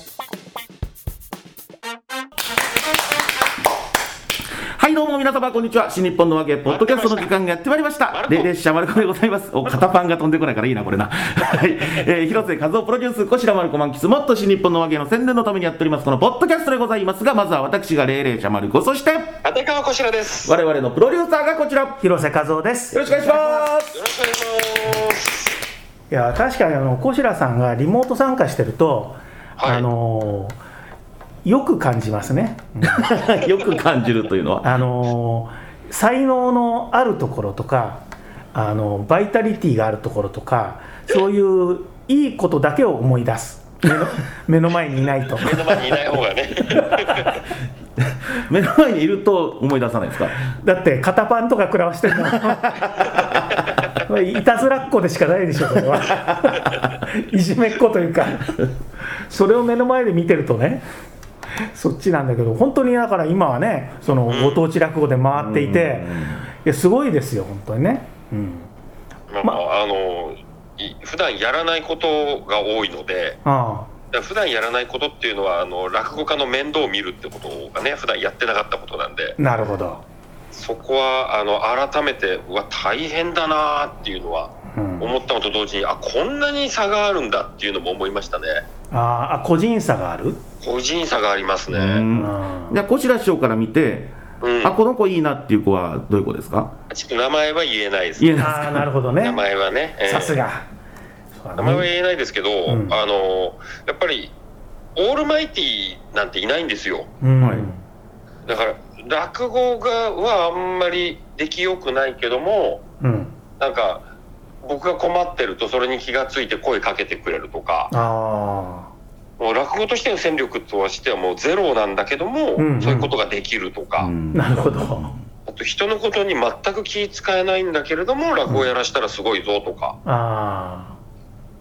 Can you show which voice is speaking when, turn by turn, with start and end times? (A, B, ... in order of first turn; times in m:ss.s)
0:04.7-0:19.3 A
0:06.7-0:07.3 B
0:08.1-0:08.5 B
0:19.4-0:20.5 B
0:20.4-0:22.0 A
0:22.0-0:23.7 C
0:22.9-0:24.0 A
0:23.9-0:25.5 B
0:26.1-0:30.6 C
0:29.6-0:29.9 B
0:31.4-0:33.2 C
0:32.8-0:34.7 A
0:34.6-0:38.0 C
0:38.5-0:45.6 C
0:45.4-0:47.4 B
0:48.0-0:50.4 A
0:50.6-0:58.7 C
0:52.2-0:53.6 A
0:55.8-0:56.9 A
0:59.3-1:00.8 C
1:01.7-1:08.7 C
1:04.3-1:04.6 B
1:05.3-1:06.4 A
1:09.3-1:13.4 B
1:13.4-1:13.9 C
1:14.1-1:19.4 B
1:19.4-1:20.0 C
1:20.5-1:28.6 B
1:24.7-1:25.1 C
1:28.9-1:30.4 C
1:30.6-1:32.0 B
1:31.7-1:36.7 A
1:32.1-1:32.8 C
1:34.4-1:34.8 B
1:36.9-1:38.4 B
1:38.2-1:38.9 A
1:38.4-1:39.5 C
1:39.2-1:40.4 B
1:40.1-1:40.7 C
1:41.3-1:41.9 C
1:41.6-1:44.3 B
1:42.7-1:43.0 C
1:45.0-1:47.1 B
1:47.2-1:47.8 C
1:47.4-1:47.7 A
1:48.5-1:52.8 B
1:53.0-1:53.4 C
1:53.6-1:54.0 B
1:54.6-1:57.9 B
1:57.9-1:58.9 C
1:59.4-2:04.1 B
2:02.6-2:03.1 C
2:04.0-2:05.1 A
2:04.3-2:05.1 C
2:05.5-2:10.0 B
2:10.0-2:11.0 C